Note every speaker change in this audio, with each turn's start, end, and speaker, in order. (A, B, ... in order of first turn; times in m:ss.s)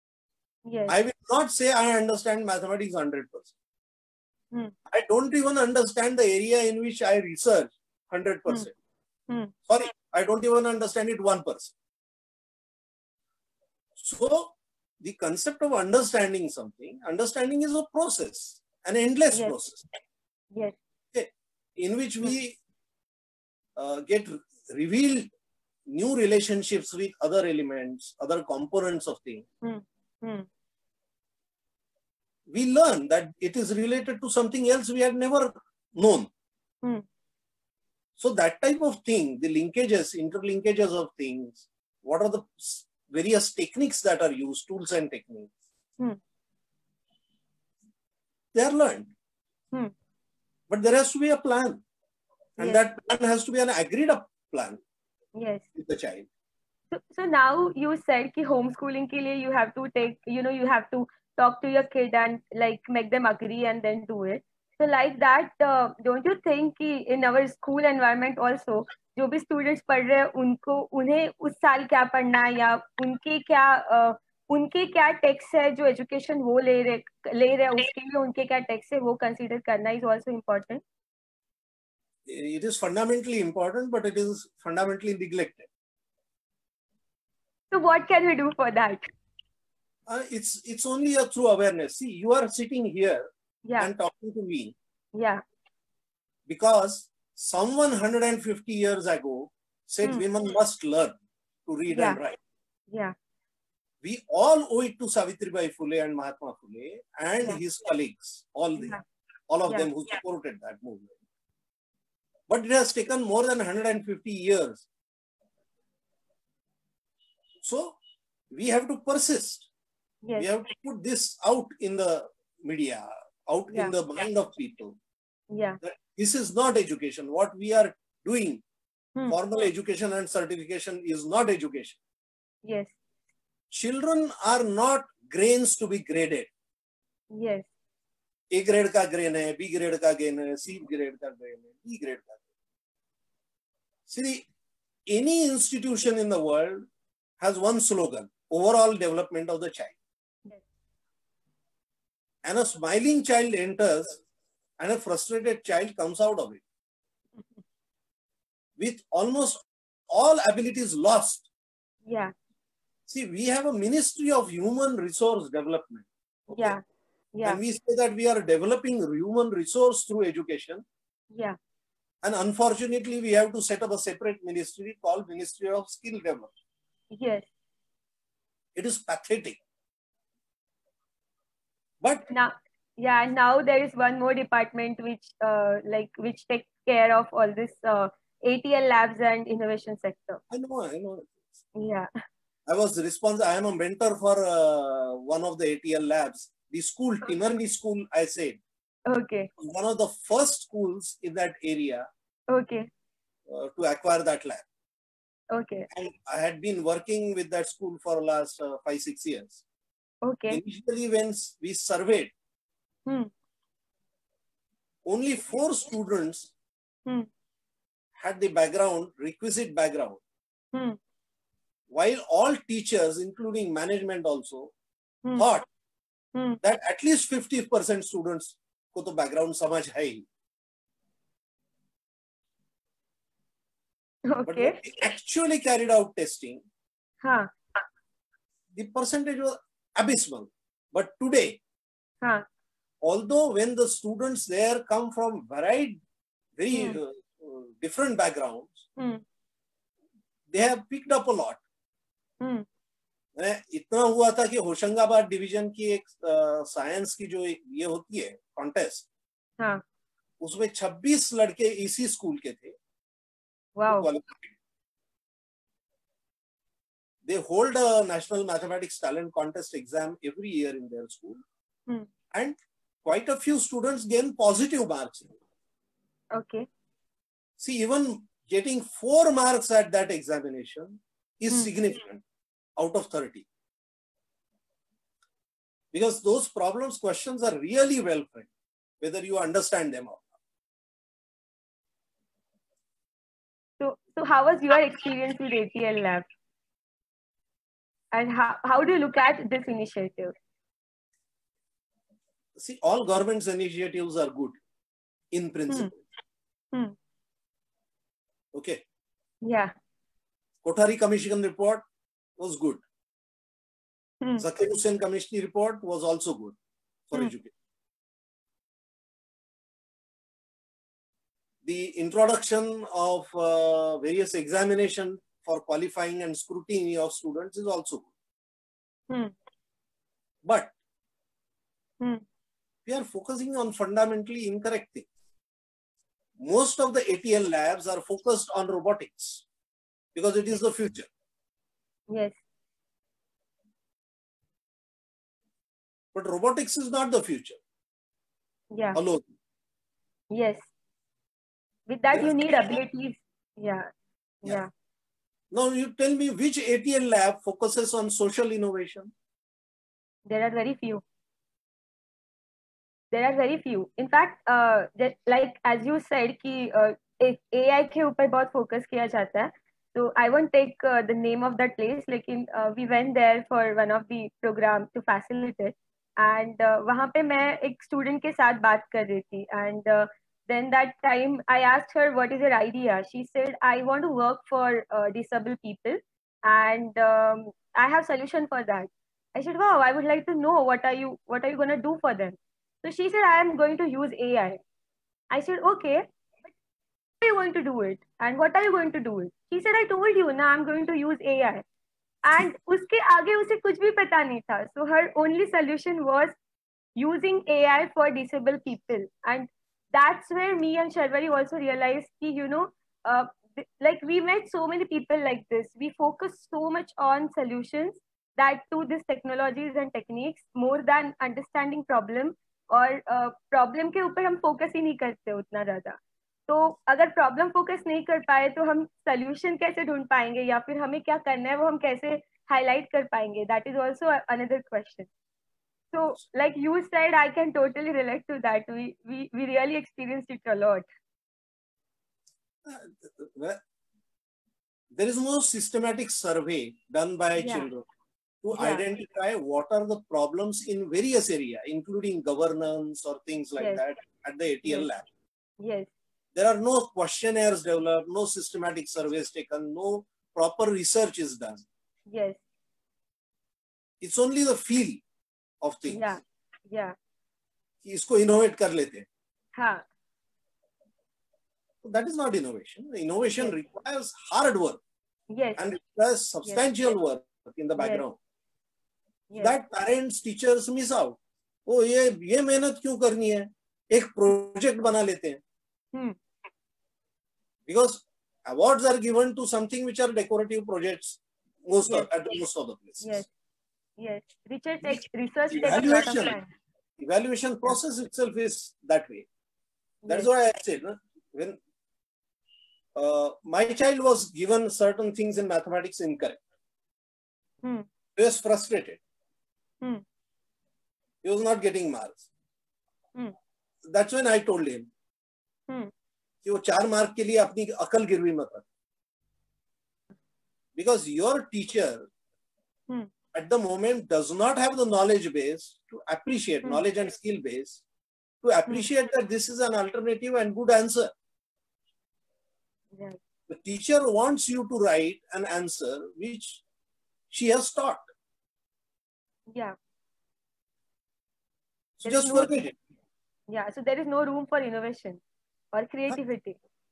0:00.7-0:01.0 A
0:00.9-0:03.5 B
0:04.9-0:08.7 B
0:09.7-0:11.7 B
0:14.0-0:19.8 B
0:21.1-0:22.6 B
0:23.8-0:25.3 B
0:25.9-0:29.5 B
0:29.6-0:30.5 A
0:32.5-0:36.3 B
0:38.2-0:45.5 B
0:48.5-0:49.1 B
0:50.7-0:51.8 B
0:52.6-0:54.8 B
0:52.6-0:52.8 A
0:55.4-0:55.6 A
0:55.8-0:56.3 B
0:56.9-1:20.8 A
1:22.3-1:25.7 B
1:27.7-1:29.1 A
1:30.1-1:33.3 B
1:33.8-1:34.8 B
1:35.2-1:35.4 A
1:36.5-1:41.2 B
1:41.7-1:42.4 B
1:41.9-1:42.2 A
1:44.0-1:49.0 B
1:49.5-1:51.2 B
1:52.5-1:54.8 B
1:57.6-1:58.0 B
1:58.5-1:59.7 B
2:00.2-2:00.5 A
2:00.4-2:05.0 B
2:05.5-2:05.8 A
2:05.8-2:08.6 B
2:09.3-2:12.0 B
2:12.6-2:12.9 A
2:13.7-2:16.5 B
2:17.3-2:17.7 A
2:18.5-2:22.4 B
2:24.1-2:24.4 B
2:25.1-2:26.9 B
2:27.4-2:30.0 B
2:32.4-2:34.2 B
2:34.8-2:36.6 B
2:38.8-2:41.5 B
2:42.1-2:42.3 A
2:43.1-2:46.8 B
2:46.5-2:46.8 A
2:47.5-2:50.8 B
2:52.2-2:56.5 B
2:57.1-2:57.5 A
2:58.8-2:59.6 B
3:02.0-3:02.3 B
3:02.3-3:10.4 A
3:10.5-3:11.4 B
3:11.8-3:12.1 A
3:12.7-3:18.6 B
3:19.1-3:19.5 A
3:19.6-3:22.1 B
3:22.5-3:22.9 A
3:23.5-3:24.7 B
3:25.5-3:25.9 A
3:25.9-3:29.6 B
3:30.2-3:30.6 A
3:30.5-3:32.3 B
3:33.1-3:33.3 A
3:35.1-3:36.5 B
3:38.2-3:40.2 B
3:41.9-3:44.7 B
3:45.4-3:45.7 B
3:46.6-3:50.3 B
3:54.3-3:54.8 A
3:54.5-3:56.6 B
3:57.2-3:57.5 A
3:58.7-4:01.6 B
4:03.0-4:06.0 B
4:06.6-4:08.8 B
4:06.7-4:07.0 A
4:09.0-4:09.2 A
4:10.5-4:11.6 B
4:12.4-4:12.7 A
4:13.4-4:19.1 B
4:20.4-4:22.8 B
4:23.8-4:24.1 A
4:23.9-4:24.5 B
4:27.2-4:31.4 B
4:32.3-4:35.4 B
4:36.3-4:36.7 A
4:37.6-4:42.2 B
4:42.8-4:43.5 B
4:45.9-4:48.5 B
4:49.0-4:50.4 B
4:53.8-4:56.2 A
4:58.1-5:00.3 A
5:02.6-5:04.6 B
5:05.3-5:06.0 B
5:08.5-5:08.8 B
5:09.4-5:09.7 A
5:10.6-5:11.8 B
5:12.4-5:12.8 B
5:14.4-5:16.6 B
5:17.1-5:17.5 B
5:21.6-5:28.1 B
5:30.4-5:30.7 B
5:32.9-5:35.1 B
5:36.4-5:39.4 B
5:40.2-5:41.1 B
5:42.1-5:42.4 A
5:46.1-5:47.6 B
5:49.0-5:49.3 B
5:50.3-5:50.7 A
5:51.9-5:53.9 A
5:52.1-5:52.8 B
5:54.4-5:54.7 A
5:55.5-5:59.1 B
6:00.3-6:01.0 A
6:03.1-6:34.6 A
6:35.3-6:36.0 A
6:37.2-6:41.6 A
6:42.2-6:46.4 A
6:47.0-7:06.0 A
7:06.5-7:15.1 A
7:15.9-7:20.9 A
7:22.6-7:23.6 B
7:24.9-7:27.8 B
7:27.4-7:27.7 A
7:28.4-7:35.1 B
7:28.6-7:28.8 A
7:35.6-7:35.9 A
7:36.4-7:41.7 B
7:42.1-7:42.4 A
7:44.0-7:45.0 B
7:45.6-7:46.2 B
7:45.9-7:47.0 A
7:47.8-7:49.1 B
7:49.6-7:49.8 A
7:51.8-7:54.8 B
7:55.3-7:55.6 A
7:55.6-7:58.2 B
7:57.8-7:58.0 A
7:59.3-7:59.6 A
7:59.4-8:05.4 B
8:07.7-8:13.2 B
8:13.0-8:13.3 A
8:14.0-8:16.5 A
8:14.8-8:16.4 B
8:17.0-8:19.3 B
8:20.1-8:21.6 B
8:23.0-8:26.4 B
8:28.2-8:29.0 B
8:31.2-8:32.3 B
8:33.9-8:34.9 B
8:36.4-8:38.6 B
8:40.8-8:42.1 B
8:43.3-8:47.8 B
8:48.4-8:51.1 B
8:53.5-8:56.6 B
8:57.3-8:58.0 B
9:02.0-9:02.8 B
9:02.0-9:02.5 A
9:03.5-9:05.2 A
9:05.7-9:06.6 A